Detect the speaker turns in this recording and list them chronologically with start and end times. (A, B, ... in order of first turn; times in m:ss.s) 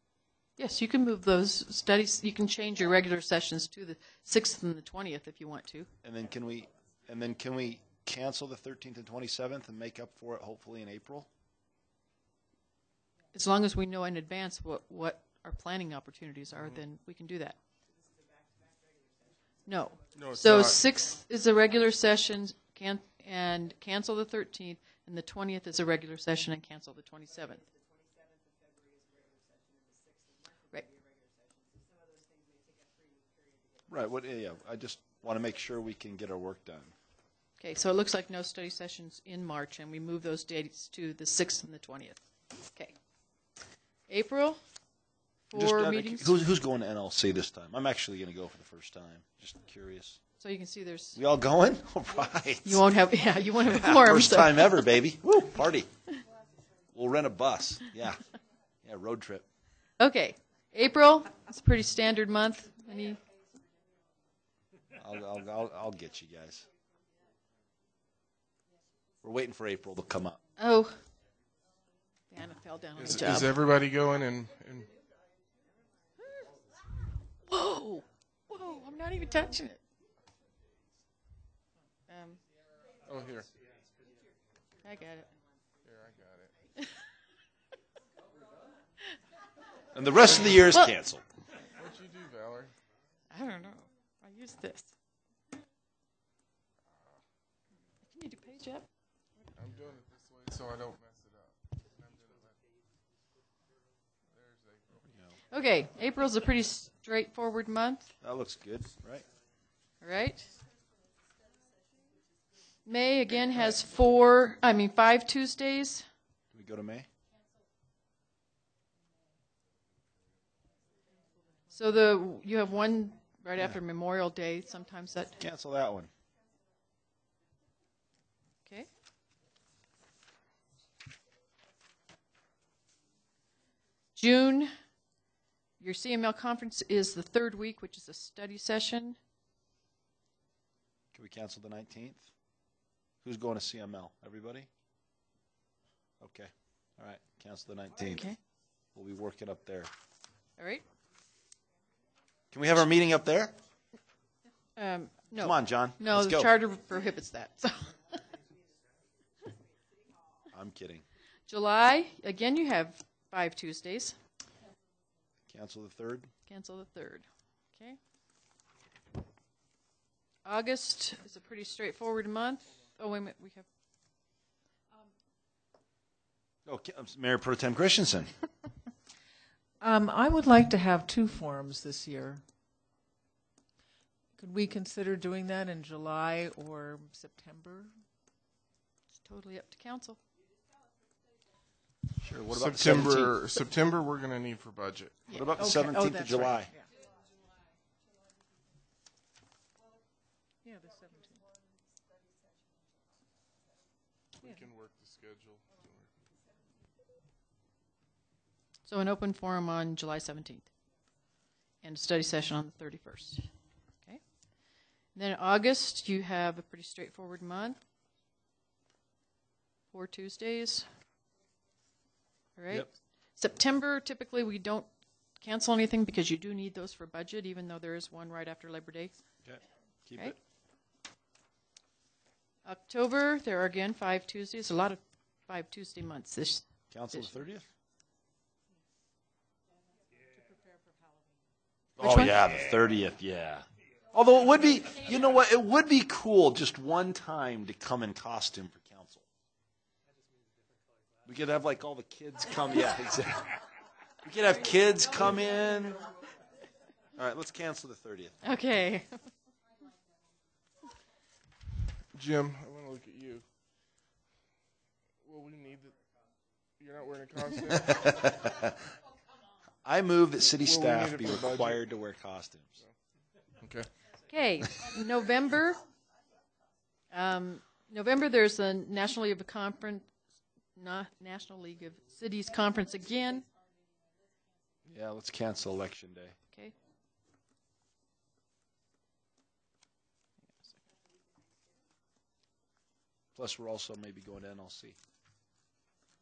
0:00.6-0:05.9 A
0:06.0-0:11.3 B
0:13.3-0:17.6 A
0:16.5-0:16.8 C
0:19.7-0:27.6 A
0:20.1-0:20.8 C
0:33.9-0:36.9 B
0:37.6-0:43.0 A
0:44.1-0:44.6 A
0:45.5-0:46.3 A
0:45.6-0:50.2 B
0:50.4-0:51.2 A
0:51.2-0:52.8 B
0:52.6-0:54.8 A
0:53.6-0:55.9 B
0:56.9-0:58.2 B
0:58.8-0:59.5 B
1:00.0-1:03.2 A
1:05.0-1:06.7 B
1:09.2-1:10.4 B
1:10.6-1:11.0 A
1:12.3-1:13.6 A
1:13.0-1:14.9 C
1:16.2-1:16.4 A
1:17.5-1:19.8 A
1:22.1-1:22.4 A
1:23.1-1:23.5 C
1:24.8-1:25.3 A
1:25.8-1:26.6 C
1:29.9-1:31.2 B
1:30.2-1:30.6 C
1:31.7-1:32.7 C
1:33.3-1:34.9 A
1:38.1-1:38.8 A
1:39.6-1:42.6 C
1:44.3-1:45.0 C
1:45.1-1:45.4 B
1:45.5-1:48.1 A
1:48.2-1:49.2 B
1:50.0-1:50.5 A
1:52.9-1:56.0 A
1:56.5-1:57.1 B
2:01.7-2:05.4 A
2:05.4-2:06.1 B
2:14.2-2:14.7 A
2:15.8-2:19.2 A
2:21.1-2:22.3 B
2:23.2-2:24.7 B
2:26.2-2:28.3 B
2:28.0-2:28.4 A
2:29.0-2:29.9 B
2:30.6-2:30.8 A
2:32.5-2:33.5 B
2:34.8-2:38.2 A
2:35.4-2:36.5 B
2:40.5-2:41.0 B
2:41.5-2:44.2 A
2:45.5-2:46.3 B
2:46.5-2:48.0 A
2:50.4-2:53.7 A
2:56.7-2:58.3 B
2:59.8-3:02.4 D
3:04.4-3:07.9 D
3:09.2-3:10.2 A
3:12.2-3:13.4 B
3:12.5-3:15.2 C
3:15.3-3:16.7 B
3:15.6-3:16.9 D
3:20.6-3:21.4 D
3:24.4-3:26.1 C
3:28.9-3:30.7 A
3:31.8-3:33.5 A
3:35.2-3:37.8 A
3:39.9-3:40.9 A
3:42.6-3:44.9 A
3:45.4-3:49.1 A
3:49.4-3:50.4 B
3:52.6-3:57.4 A
3:56.9-3:57.7 B
4:00.4-4:01.0 D
4:02.0-4:09.2 B
4:02.0-4:02.4 A
4:11.3-4:13.6 B
4:14.2-4:16.1 B
4:17.2-4:18.4 B
4:18.4-4:19.1 A
4:22.1-4:23.5 C
4:25.2-4:26.0 C
4:26.8-4:28.3 C
4:27.9-4:28.8 B
4:29.8-4:32.8 B
4:30.6-4:31.8 C
4:33.6-4:33.9 C
4:34.3-4:35.8 A
4:37.1-4:40.1 A
4:40.8-4:43.5 A
4:44.9-4:46.4 B
4:53.4-4:55.0 B